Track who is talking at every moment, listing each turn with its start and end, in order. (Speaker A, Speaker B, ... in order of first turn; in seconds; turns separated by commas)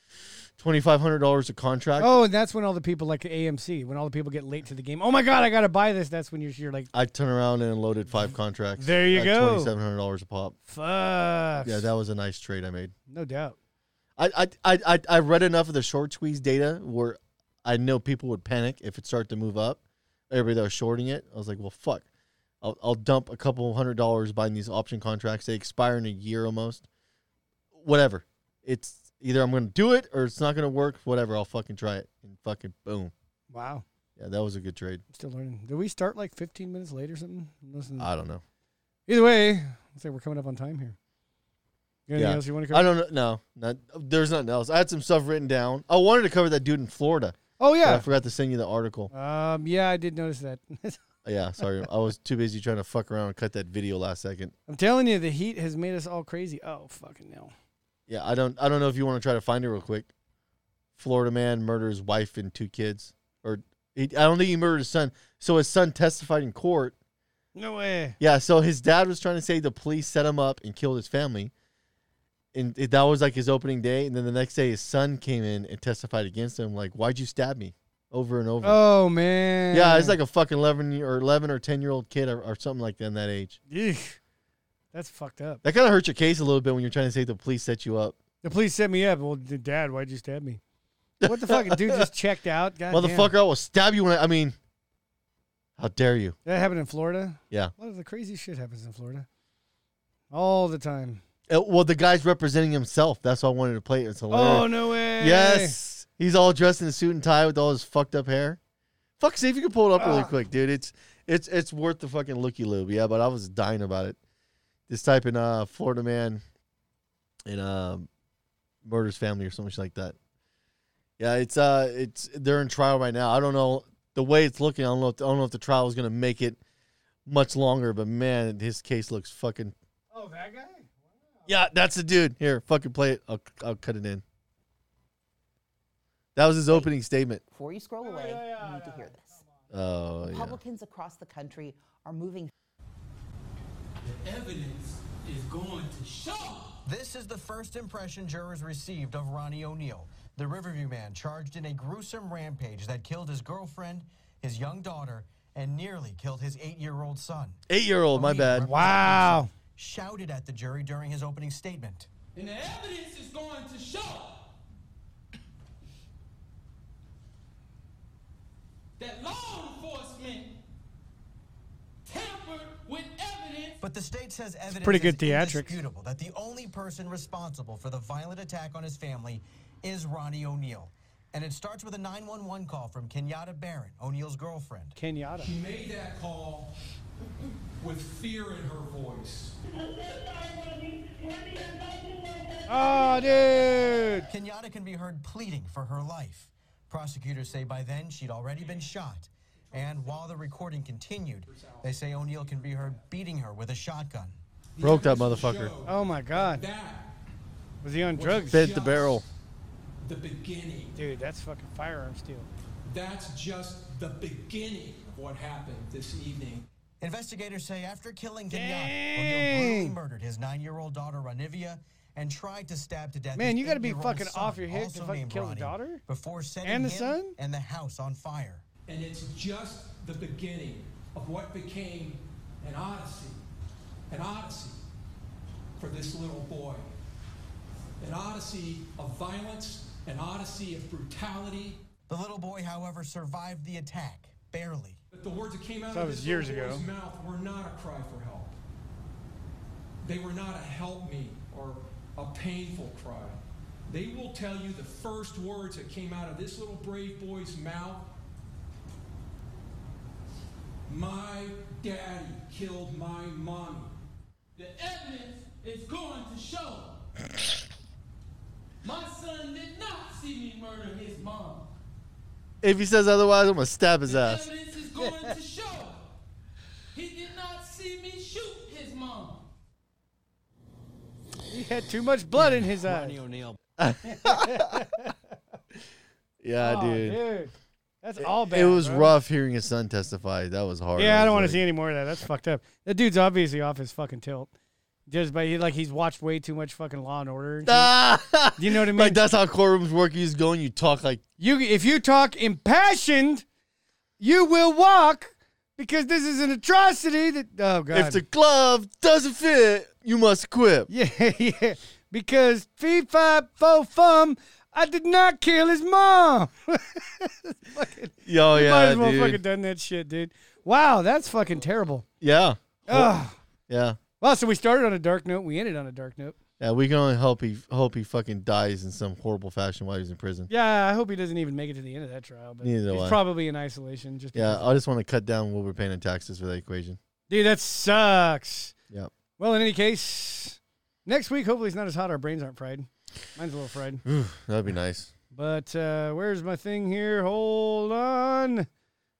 Speaker A: 0.6-2.2, Speaker B: 2.0-6.9, Speaker A: 6.9-10.5, Speaker B: 8.8-9.7, Speaker B: 10.7-11.8, Speaker A: 11.6-12.9, Speaker B: 13.1-13.6, Speaker A: 14.2-22.1, Speaker A: 22.6-26.9, Speaker A: 27.7-33.1, Speaker B: 33.5-33.8, Speaker A: 34.2-35.0, Speaker B: 35.1-38.1, Speaker A: 38.0-38.4, Speaker B: 39.1-41.0, Speaker B: 42.1-42.9, Speaker A: 42.1-49.1, Speaker B: 47.6-48.0, Speaker B: 49.1-51.0, Speaker A: 51.2-54.5, Speaker B: 54.7-57.5, Speaker A: 58.1-60.1, Speaker A: 61.0-66.9, Speaker B: 67.5-68.2, Speaker A: 68.2-71.5, Speaker A: 72.5-78.8, Speaker B: 78.6-80.2, Speaker A: 79.7-83.6, Speaker B: 83.7-84.2, Speaker B: 84.9-85.6, Speaker A: 85.6-88.2, Speaker B: 88.4-90.6, Speaker A: 91.2-92.1, Speaker B: 91.2-93.3, Speaker A: 92.9-94.5, Speaker A: 95.8-96.4, Speaker B: 96.5-99.2, Speaker B: 100.3-101.2, Speaker A: 101.5-108.6, Speaker B: 104.3-105.8, Speaker A: 109.2-114.2, Speaker B: 110.0-110.3, Speaker A: 114.9-116.4, Speaker A: 117.5-118.1, Speaker A: 118.8-120.2, Speaker A: 121.2-126.6, Speaker A: 127.2-129.7, Speaker B: 130.1-131.4, Speaker A: 131.4-134.2, Speaker A: 136.3-137.4, Speaker C: 137.5-139.4, Speaker B: 138.0-139.4, Speaker A: 139.7-140.6, Speaker C: 140.3-142.5, Speaker D: 144.0-146.8, Speaker E: 146.8-157.6, Speaker A: 157.7-158.7, Speaker E: 158.1-162.1, Speaker B: 158.7-159.5, Speaker D: 162.4-162.8, Speaker D: 163.4-163.9, Speaker D: 172.4-173.1, Speaker E: 173.8-185.0, Speaker B: 174.8-175.8, Speaker B: 185.0-185.5, Speaker D: 185.4-186.7, Speaker D: 187.8-189.6, Speaker B: 192.7-194.3, Speaker E: 194.3-204.4, Speaker D: 198.6-198.8, Speaker D: 199.7-200.6, Speaker D: 201.4-203.0, Speaker D: 204.8-207.2, Speaker A: 204.8-205.7, Speaker B: 205.9-206.6, Speaker B: 207.8-208.6, Speaker D: 208.1-209.3, Speaker A: 208.5-209.2, Speaker D: 210.0-211.0, Speaker B: 210.9-212.5, Speaker D: 212.8-216.7, Speaker E: 217.0-228.6, Speaker B: 218.5-220.0, Speaker B: 223.3-226.0, Speaker B: 226.6-227.3, Speaker D: 228.9-233.4, Speaker D: 234.1-234.8, Speaker D: 235.8-236.9, Speaker D: 238.0-241.8, Speaker E: 242.1-245.0, Speaker D: 245.1-248.6, Speaker B: 245.9-246.8, Speaker D: 250.0-258.1, Speaker D: 260.9-263.9, Speaker F: 269.1-270.7, Speaker F: 271.3-271.6, Speaker A: 272.6-274.5, Speaker F: 274.1-274.9, Speaker B: 275.0-275.4, Speaker F: 275.4-275.9, Speaker F: 277.4-279.3, Speaker B: 281.5-283.2, Speaker E: 282.6-283.6, Speaker A: 283.8-284.9, Speaker B: 284.0-285.1, Speaker A: 286.4-287.2, Speaker B: 286.6-289.1, Speaker A: 288.2-291.6, Speaker B: 290.9-294.5, Speaker B: 295.1-298.0, Speaker A: 297.6-301.2, Speaker B: 298.5-299.2, Speaker B: 301.4-303.4, Speaker B: 304.2-308.2, Speaker A: 307.9-310.9, Speaker B: 310.9-322.1, Speaker A: 318.2-319.4, Speaker A: 322.2-323.2, Speaker B: 322.9-323.4, Speaker A: 323.7-324.0, Speaker B: 324.2-326.4, Speaker A: 326.6-330.5, Speaker B: 330.5-334.8, Speaker A: 332.6-333.2, Speaker A: 334.3-337.0, Speaker B: 337.3-338.7, Speaker B: 339.4-344.0, Speaker A: 344.0-345.1, Speaker B: 345.3-348.7